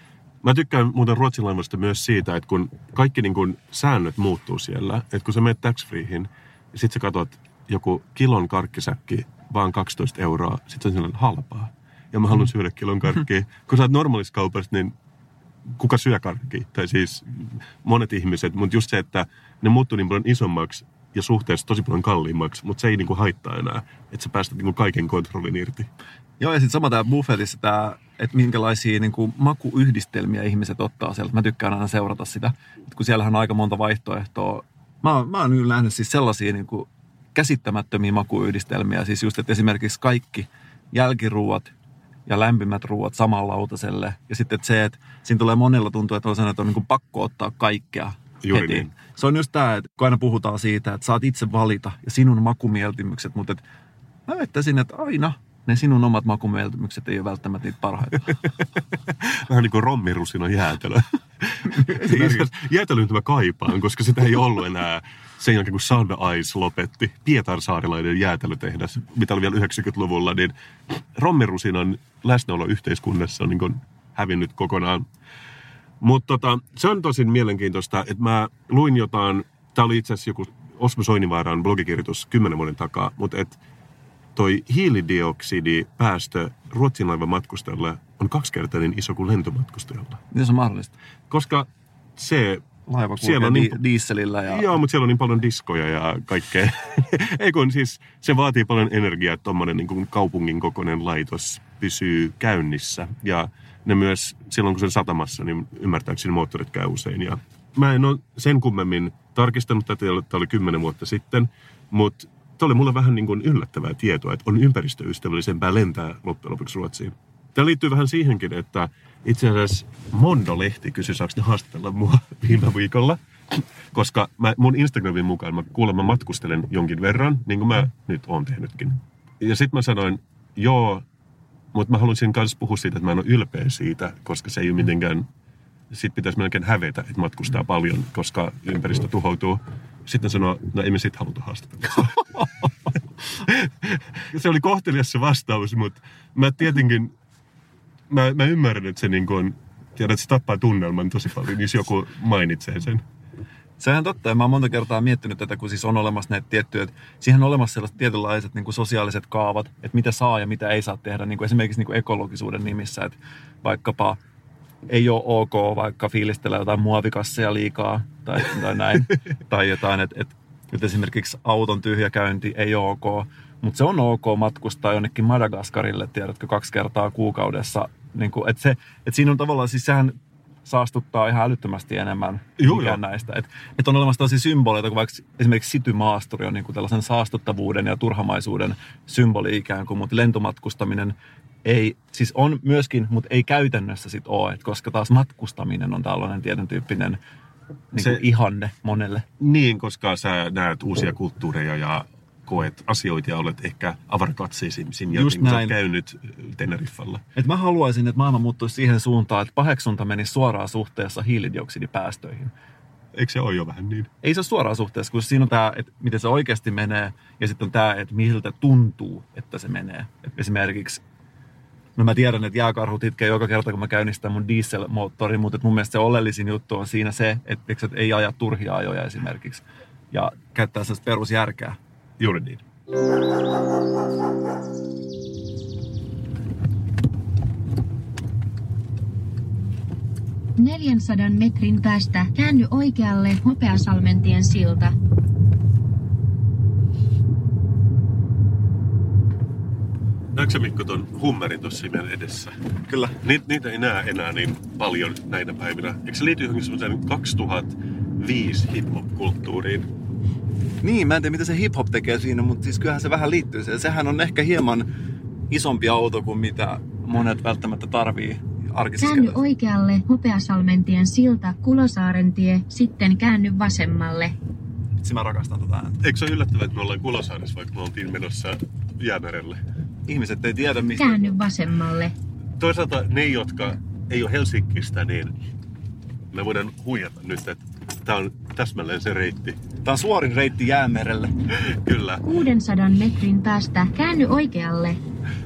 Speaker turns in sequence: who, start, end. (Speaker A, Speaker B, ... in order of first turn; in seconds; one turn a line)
Speaker A: 0.4-14.9
Speaker A: 15.7-25.9
Speaker B: 26.4-41.7
Speaker B: 42.3-53.6
Speaker A: 48.4-48.9
Speaker B: 54.3-58.4
Speaker A: 59.1-75.1
Speaker B: 61.7-62.5
Speaker A: 76.0-83.6
Speaker A: 84.4-90.2
Speaker B: 90.3-90.9
Speaker A: 91.3-92.7
Speaker B: 92.9-94.8
Speaker A: 93.2-93.8
Speaker A: 94.5-131.1
Speaker A: 131.7-135.3
Speaker A: 135.9-142.4
Speaker A: 143.3-147.1
Speaker A: 148.1-153.0
Speaker B: 153.8-164.2
Speaker B: 164.9-197.2
Speaker A: 182.6-183.0
Speaker B: 197.9-199.3
Speaker A: 199.4-207.2
Speaker B: 205.1-205.8
Speaker B: 207.4-212.5
Speaker A: 213.2-214.1
Speaker B: 214.2-221.0
Speaker B: 222.0-231.8
Speaker A: 232.2-232.6
Speaker C: 240.6-244.9
Speaker A: 250.3-252.6
Speaker B: 252.9-253.2
Speaker A: 253.2-259.9
Speaker B: 260.8-264.9
Speaker B: 265.5-269.4
Speaker C: 269.0-274.4
Speaker B: 275.0-276.0
Speaker A: 276.0-279.6
Speaker B: 280.1-281.4
Speaker C: 281.0-282.1
Speaker A: 282.6-285.3
Speaker A: 286.3-289.6
Speaker B: 289.8-291.3
Speaker A: 291.6-292.2
Speaker C: 292.2-295.0